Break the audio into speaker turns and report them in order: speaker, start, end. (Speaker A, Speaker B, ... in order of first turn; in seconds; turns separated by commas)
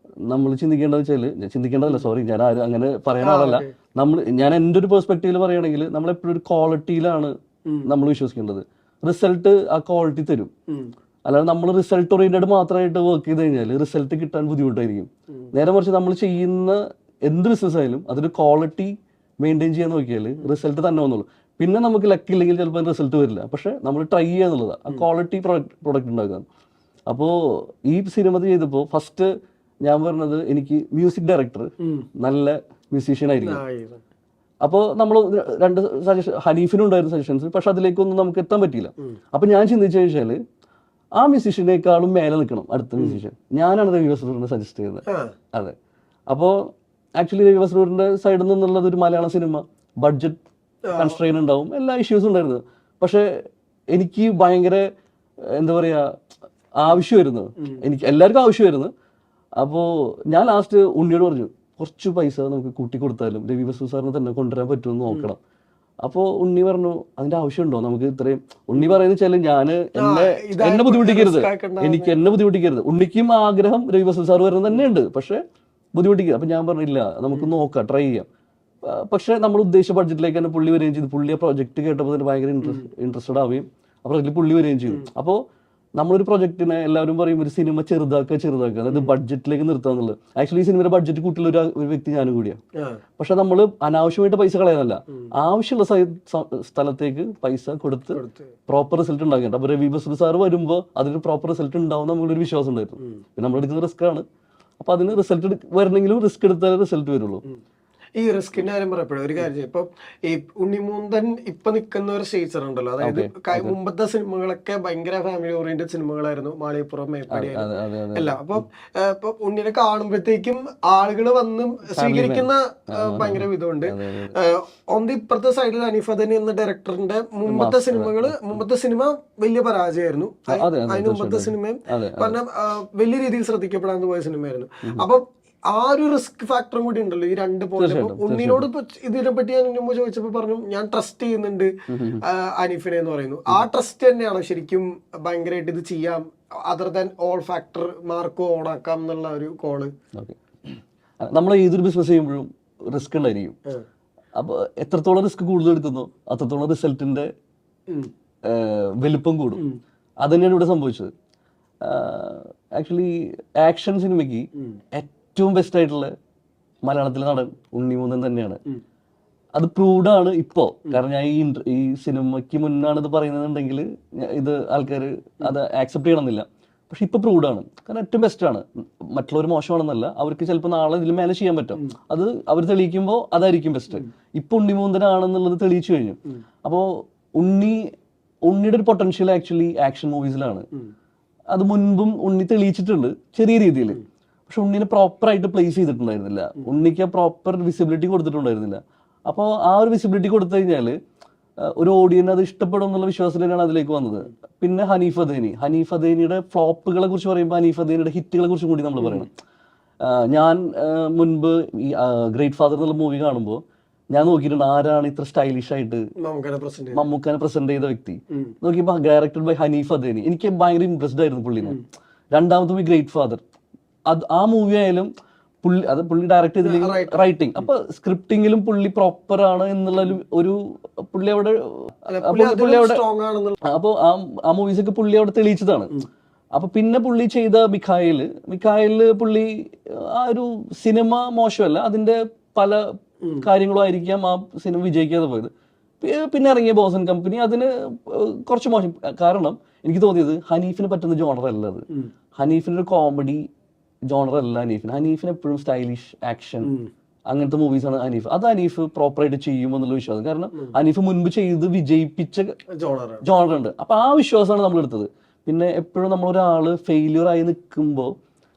Speaker A: 0.3-7.3, Speaker B: 3.2-3.7, Speaker A: 7.8-10.5, Speaker A: 11.2-26.4, Speaker A: 27.1-29.2, Speaker A: 29.8-31.7, Speaker B: 31.8-32.1, Speaker A: 32.2-33.6, Speaker B: 33.4-34.0, Speaker A: 34.6-40.4, Speaker A: 41.2-45.7, Speaker B: 45.1-45.3, Speaker A: 46.3-50.4, Speaker B: 50.9-51.2, Speaker A: 50.9-53.2, Speaker A: 53.9-54.8, Speaker A: 55.5-56.0, Speaker A: 56.8-58.9, Speaker A: 59.6-65.4, Speaker A: 66.0-75.4, Speaker B: 70.0-72.2, Speaker A: 75.9-78.2, Speaker A: 78.8-85.4, Speaker B: 82.6-82.9, Speaker A: 86.0-92.6, Speaker A: 93.2-104.2, Speaker B: 98.1-98.5, Speaker A: 104.8-107.4, Speaker B: 108.2-149.9, Speaker A: 113.0-113.8, Speaker A: 117.3-118.6, Speaker A: 121.9-124.3, Speaker A: 127.5-128.6, Speaker A: 130.5-132.4, Speaker A: 137.8-138.7, Speaker A: 141.9-142.2, Speaker A: 150.1-153.5, Speaker A: 154.3-157.3, Speaker A: 158.4-159.6, Speaker A: 160.2-161.1, Speaker A: 161.8-166.1, Speaker A: 166.8-168.6, Speaker A: 169.5-187.8, Speaker A: 188.4-190.7, Speaker A: 191.5-200.9, Speaker A: 201.7-209.3, Speaker B: 209.0-209.2, Speaker A: 210.0-213.6, Speaker A: 214.1-216.0, Speaker B: 216.2-217.0, Speaker A: 216.9-223.4, Speaker A: 224.1-225.1, Speaker A: 225.6-233.0, Speaker B: 226.6-227.3, Speaker B: 232.1-233.6, Speaker A: 233.6-235.9, Speaker A: 236.5-242.8, Speaker A: 243.4-253.4, Speaker A: 254.1-256.7, Speaker B: 256.6-256.9, Speaker A: 257.3-262.5, Speaker B: 262.8-263.2, Speaker A: 263.2-268.1